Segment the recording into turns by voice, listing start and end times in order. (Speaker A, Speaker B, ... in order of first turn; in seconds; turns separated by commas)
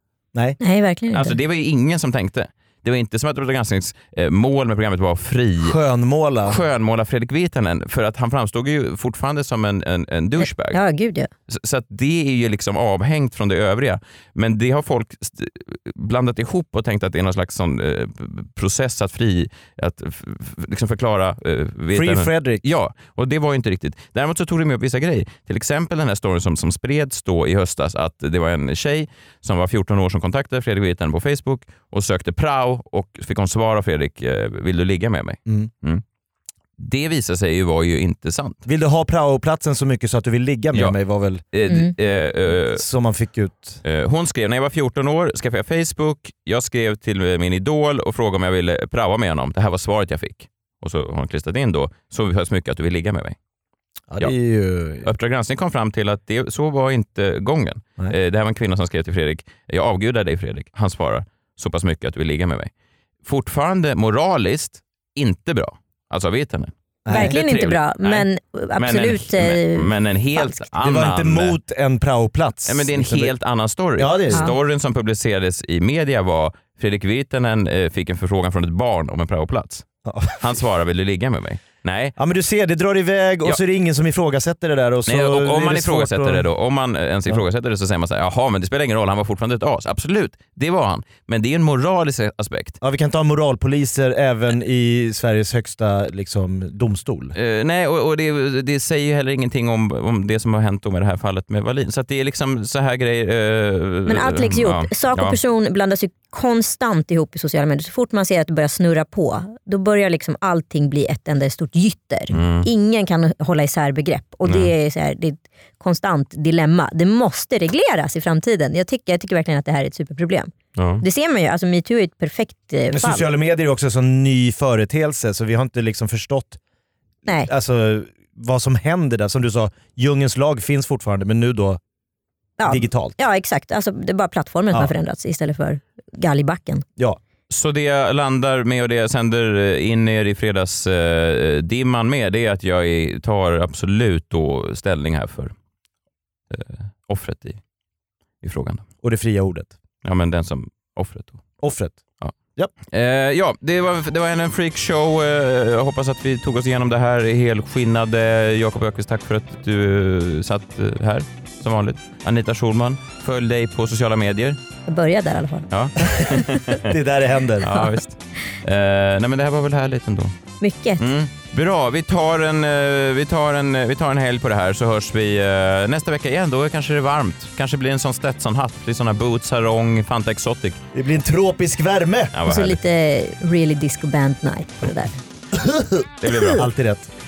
Speaker A: 0.6-1.3, Speaker B: 1.1-5.8, Speaker C: 5.6-6.6, Speaker B: 6.4-10.8, Speaker A: 10.4-11.3, Speaker B: 11.5-36.0, Speaker C: 21.9-22.6, Speaker B: 36.8-38.6, Speaker C: 38.6-41.4, Speaker B: 41.5-42.8, Speaker C: 42.7-43.8, Speaker B: 43.8-53.4, Speaker C: 54.1-55.1, Speaker B: 55.0-62.7, Speaker B: 63.2-68.2, Speaker C: 67.0-67.3, Speaker A: 67.1-70.5, Speaker B: 68.8-71.6, Speaker C: 70.8-73.3, Speaker B: 72.7-79.8, Speaker C: 74.0-74.5, Speaker C: 80.0-80.5, Speaker B: 80.4-82.1, Speaker C: 82.2-86.5, Speaker B: 85.1-92.8, Speaker C: 92.8-97.3, Speaker B: 97.3-105.4, Speaker A: 104.1-123.2, Speaker B: 112.3-112.7, Speaker B: 114.5-114.7, Speaker B: 120.8-121.0, Speaker C: 122.9-126.6, Speaker C: 127.5-131.8, Speaker A: 132.6-136.8, Speaker C: 132.7-133.1, Speaker B: 137.5-145.5, Speaker B: 146.5-147.6, Speaker B: 148.4-148.8, Speaker C: 149.0-149.7, Speaker B: 150.0-151.4, Speaker C: 151.6-152.0, Speaker B: 152.9-164.6, Speaker A: 164.8-165.7, Speaker B: 165.7-166.9, Speaker C: 166.8-167.7, Speaker B: 167.6-170.3, Speaker A: 167.7-168.0, Speaker A: 170.6-171.0, Speaker B: 171.0-180.8, Speaker C: 180.9-182.3, Speaker B: 182.3-182.8, Speaker A: 182.4-185.2, Speaker C: 185.5-187.1, Speaker B: 186.2-186.7